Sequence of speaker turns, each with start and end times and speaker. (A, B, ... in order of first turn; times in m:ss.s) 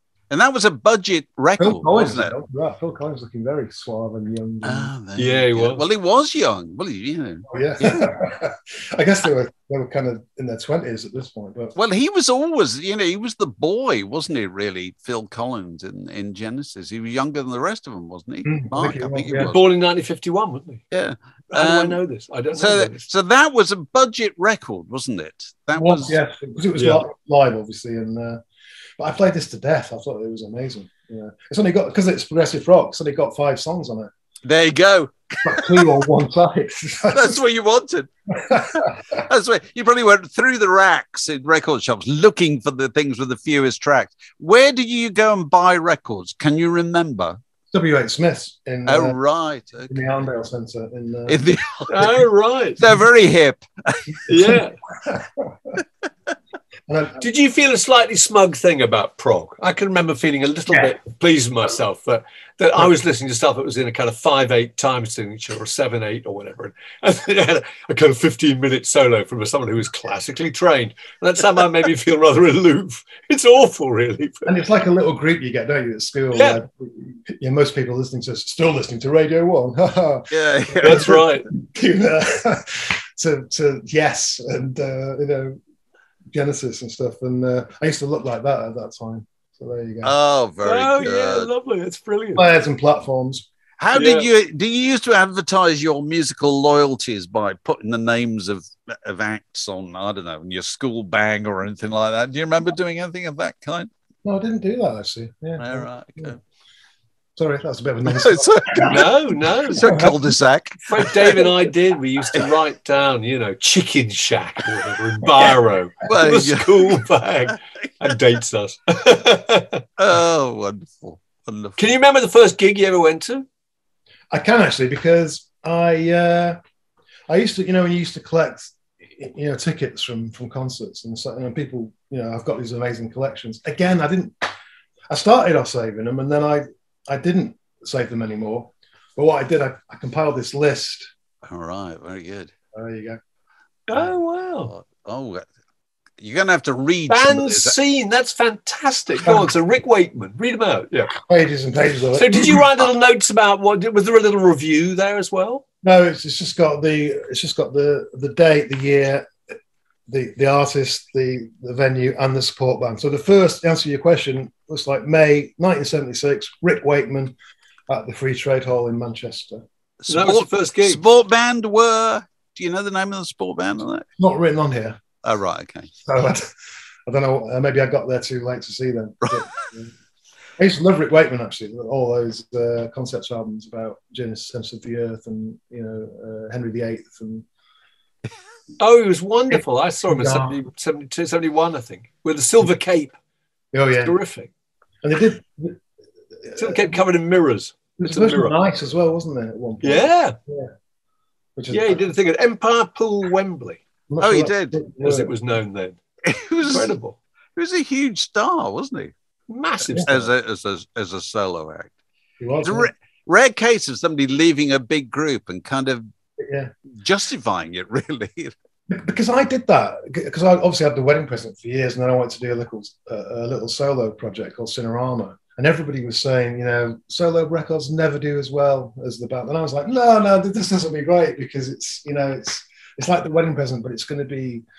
0:00.3-0:02.3 A
0:01.6-0:04.9 B
0:04.6-0:07.5 A
0:05.2-0:05.8 C
0:07.5-0:11.7 B
0:11.8-0:19.6 A
0:18.4-0:19.6 B
0:19.4-0:20.8 C
0:20.9-0:22.0 A
0:21.5-0:23.1 C
0:22.6-0:26.2 A
0:25.7-0:28.4 B
0:26.8-0:27.0 C
0:29.0-0:34.1 B
0:34.4-0:35.9 A
0:35.4-0:37.4 B
0:37.1-0:47.4 A
0:38.5-0:38.9 B
0:47.7-0:49.2 B
0:48.8-0:50.0 A
0:49.9-0:51.4 B
0:51.3-0:52.2 A
0:51.9-0:52.8 C
0:52.8-0:54.2 A
0:54.3-0:54.8 C
0:54.4-0:55.8 B
0:56.9-0:57.2 B
0:57.2-1:14.5 C
1:14.4-1:25.6 B
1:16.3-1:16.6 C
1:20.3-1:21.2 A
1:20.8-1:21.5 C
1:26.3-1:30.1 B
1:30.0-1:31.5 A
1:30.6-1:32.5 C
1:32.4-1:33.4 B
1:33.8-1:43.9 A
1:33.9-1:34.3 C
1:44.2-1:46.3 B
1:45.6-1:46.4 A
1:47.4-1:49.1 B
1:48.0-1:49.1 A
1:48.8-1:49.9 C
1:49.7-1:50.2 B
1:49.7-1:51.5 A
1:50.9-1:59.8 C
1:56.0-1:57.0 A
2:00.0-2:01.9 A
2:01.8-2:03.4 C
2:04.3-2:06.6 B
2:07.3-2:14.5 B
2:15.1-2:21.1 B
2:21.4-2:22.5 A
2:22.7-2:23.2 B
2:23.9-2:24.7 C
2:24.7-2:25.4 A
2:26.2-2:27.7 A
2:27.1-2:31.1 C
2:31.2-2:32.6 B
2:32.2-2:35.6 C
2:35.8-2:39.3 B
2:40.1-2:47.3 B
2:47.9-2:49.6 B
2:50.0-2:54.0 A
2:50.1-2:51.0 C
2:54.2-2:55.0 B
2:55.2-2:55.9 A
2:56.0-2:56.5 B
2:57.1-2:59.9 B
3:00.6-3:07.4 B
3:08.8-3:13.1 C
3:09.5-3:10.6 B
3:13.7-3:14.2 B
3:14.0-3:14.5 C
3:15.0-3:15.8 B
3:16.4-3:16.8 B
3:16.6-3:18.6 C
3:18.0-3:20.7 B
3:19.8-3:20.4 C
3:21.6-3:22.0 B
3:21.7-3:23.8 C
3:24.1-3:25.3 B
3:24.2-3:24.8 A
3:25.0-3:26.0 C
3:26.2-3:26.9 A
3:26.6-3:27.2 C
3:27.6-3:29.1 A
3:29.5-3:30.3 C
3:30.0-3:31.9 A
3:32.4-3:32.9 B
3:32.6-3:36.0 A
3:36.4-3:36.7 B
3:37.0-3:38.5 A
3:38.9-3:54.6 B